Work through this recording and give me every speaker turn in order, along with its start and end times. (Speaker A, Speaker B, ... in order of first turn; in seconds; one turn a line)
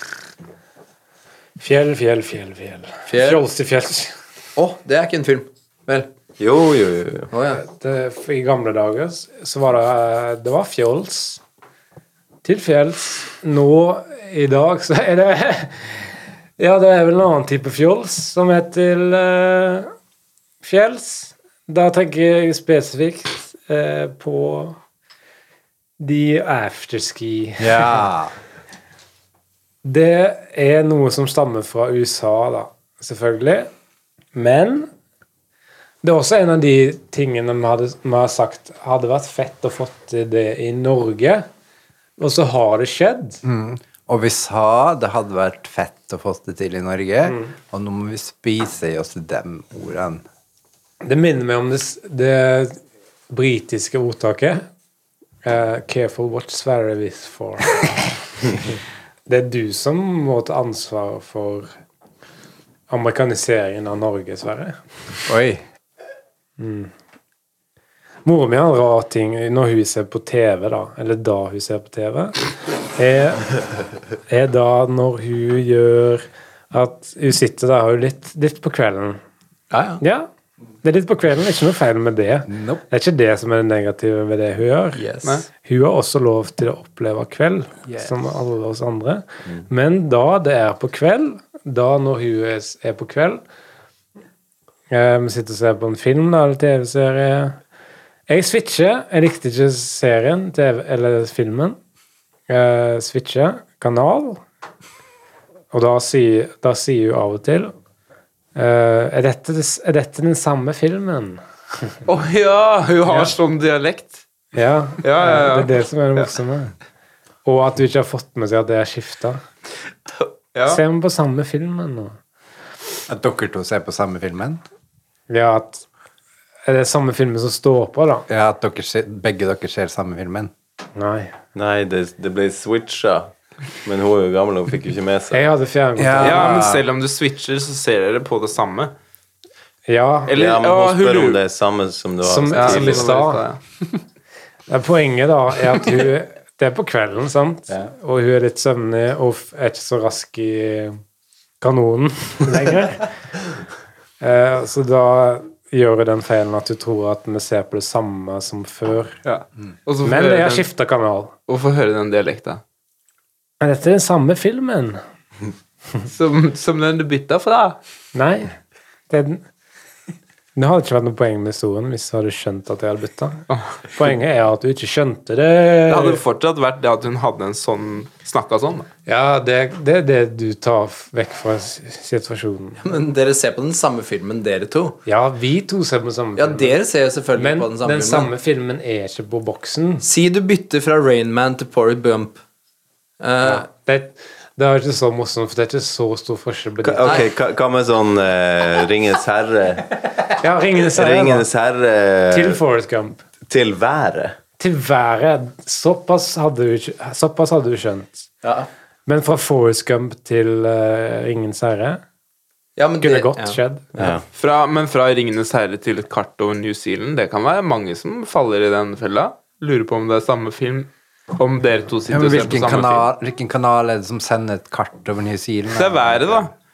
Speaker A: 1.6-4.1
Speaker B: 3.1-3.4
Speaker B: 4.5-6.1
Speaker C: 6.4-7.3
Speaker B: 7.3-7.6
Speaker A: 7.6-11.4
Speaker A: 12.4-19.9
Speaker A: 20.6-24.8
Speaker A: 26.0-28.0
Speaker D: 27.6-28.3
Speaker A: 29.8-33.7
Speaker A: 34.3-34.9
Speaker A: 36.0-41.5
Speaker A: 42.2-43.4
Speaker D: 43.4-50.2
Speaker A: 51.0-52.8
Speaker A: 53.3-54.7
Speaker A: 55.4-58.0
Speaker A: 59.3-61.7
Speaker A: 62.9-64.8
Speaker D: 65.3-65.6
Speaker A: 66.6-66.9
Speaker A: 68.2-72.4
Speaker A: 72.9-73.5
Speaker A: 74.3-79.2
Speaker B: 79.7-80.0
Speaker A: 80.0-80.3
Speaker A: 80.8-85.0
Speaker D: 82.5-82.8
Speaker B: 84.9-85.4
Speaker A: 85.6-93.4
Speaker A: 94.9-97.6
Speaker A: 98.3-101.8
Speaker A: 102.5-104.4
Speaker A: 105.7-107.7
Speaker A: 108.5-111.4
Speaker E: 112.0-114.2
Speaker A: 114.5-116.7
Speaker E: 115.0-116.2
Speaker A: 117.4-119.4
Speaker E: 120.5-120.8
Speaker A: 120.7-122.2
Speaker D: 123.1-124.6
Speaker A: 125.3-125.8
Speaker A: 126.7-128.2
Speaker D: 128.3-130.5
Speaker A: 130.9-131.3
Speaker C: 131.5-133.3
Speaker C: 133.8-135.4
Speaker A: 135.3-136.7
Speaker D: 136.0-136.8
Speaker E: 136.2-138.9
Speaker A: 139.9-140.3
Speaker E: 140.3-141.4
Speaker C: 140.3-143.1
Speaker A: 142.2-143.4
Speaker E: 142.5-143.6
Speaker A: 144.7-151.0
Speaker A: 151.6-153.1
Speaker A: 154.2-159.2
Speaker E: 159.2-160.7
Speaker A: 160.0-161.3
Speaker E: 161.5-162.6
Speaker A: 163.6-165.0
Speaker E: 166.1-167.8
Speaker A: 168.1-168.6
Speaker A: 169.1-169.4
Speaker A: 170.6-176.2
Speaker E: 175.9-178.9
Speaker A: 179.1-182.8
Speaker B: 182.8-185.0
Speaker A: 185.1-186.8
Speaker B: 186.3-188.3
Speaker A: 187.3-190.0
Speaker B: 190.0-192.4
Speaker B: 193.2-193.7
Speaker A: 193.4-197.2
Speaker C: 196.8-200.2
Speaker A: 200.4-201.5
Speaker C: 200.9-202.6
Speaker A: 202.3-203.2
Speaker C: 203.5-204.3
Speaker A: 204.6-208.3
Speaker A: 209.1-212.0
Speaker B: 212.8-214.2
Speaker A: 213.0-213.9
Speaker C: 214.0-214.2
Speaker E: 214.3-223.1
Speaker D: 222.1-226.4
Speaker E: 225.7-226.5